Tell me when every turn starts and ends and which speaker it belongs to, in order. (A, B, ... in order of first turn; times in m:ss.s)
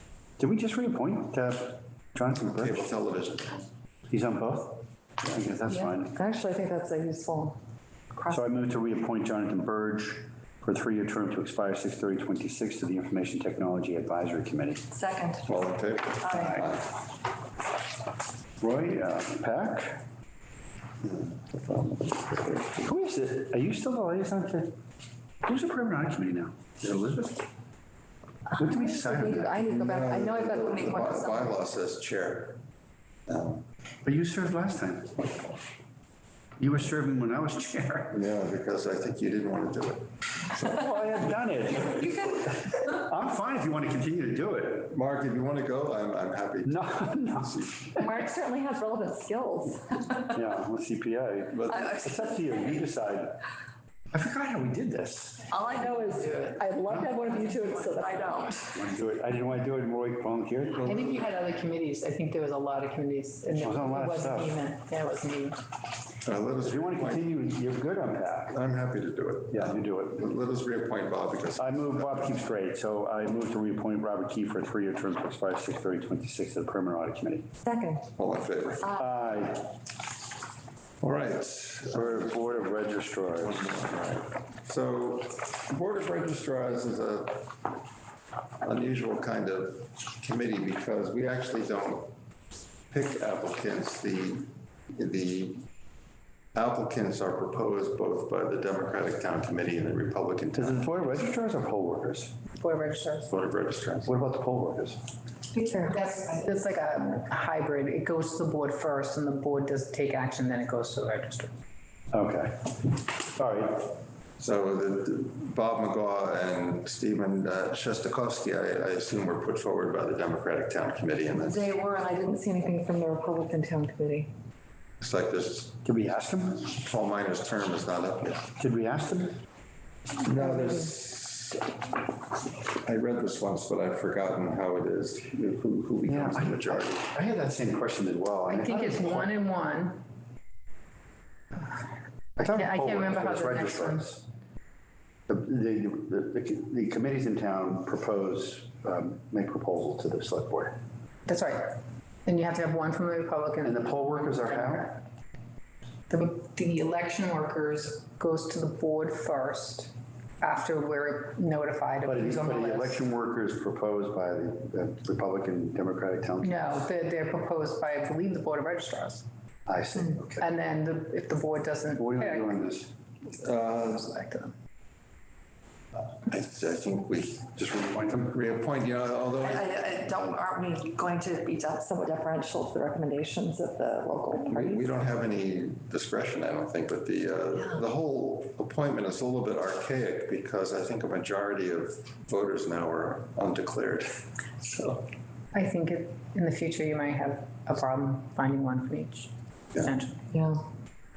0:00.4-0:02.9 A
0:02.4-0:03.7 B
0:04.1-0:06.2 A
0:05.8-0:07.6 C
0:08.1-0:08.4 C
0:08.3-0:14.8 A
0:14.9-0:15.6 C
0:15.5-0:16.8 B
0:16.2-0:16.6 C
0:16.3-0:16.9 A
0:18.6-0:20.0 A
0:21.0-0:22.9 B
0:22.8-0:24.8 A
0:25.4-0:27.5 A
0:28.5-0:31.6 C
0:28.6-0:29.7 A
0:29.6-0:32.6 B
0:33.3-0:33.6 B
0:34.0-0:35.5 A
0:36.6-0:38.2 A
0:38.1-0:40.1 B
0:40.5-0:45.0 A
0:44.9-0:47.9 B
0:46.6-0:47.9 A
0:48.0-0:50.3 C
0:50.2-0:53.4 A
0:51.5-0:52.0 B
0:51.7-0:52.8 C
0:54.1-0:55.5 A
0:55.5-0:58.9 C
0:56.9-0:57.2 A
0:57.3-0:58.5 D
0:58.7-1:00.8 A
1:00.8-1:01.3 B
1:00.8-1:05.6 D
1:03.6-1:04.6 A
1:06.2-1:07.4 B
1:06.6-1:08.6 A
1:08.5-1:12.4 B
1:09.5-1:10.3 A
1:11.6-1:17.5 A
1:17.6-1:18.1 C
1:18.2-1:19.0 B
1:18.9-1:19.8 A
1:21.0-1:22.7 B
1:21.9-1:23.8 A
1:23.4-1:27.7 B
1:28.6-1:32.1 B
1:32.9-1:35.6 B
1:36.6-1:40.9 B
1:40.5-1:42.4 A
1:42.6-1:43.3 D
1:43.3-1:44.1 B
1:44.0-1:45.0 A
1:45.5-1:46.5 C
1:45.8-1:51.5 D
1:52.1-1:54.0 A
1:54.4-2:01.7 B
2:01.4-2:04.3 C
2:05.0-2:05.8 B
2:05.8-2:06.7 A
2:06.6-2:08.5 B
2:08.6-2:09.4 A
2:10.2-2:11.9 B
2:10.4-2:10.9 C
2:12.7-2:17.1 B
2:16.1-2:19.3 A
2:18.5-2:20.0 D
2:22.4-2:24.3 A
2:22.4-2:24.1 D
2:25.3-2:30.8 A
2:31.3-2:35.0 D
2:33.6-2:35.0 A
2:36.1-2:43.0 D
2:42.0-2:46.9 A
2:46.4-2:49.3 D
2:49.7-2:50.5 A
2:50.4-2:52.6 D
2:52.0-2:52.9 A
2:53.4-2:54.0 B
2:53.6-2:54.5 D
2:56.2-2:57.5 B
2:57.6-2:58.4 A
2:58.2-2:59.8 B
2:59.4-3:04.8 C
3:04.4-3:15.1 B
3:15.5-3:20.2 D
3:20.3-3:20.7 C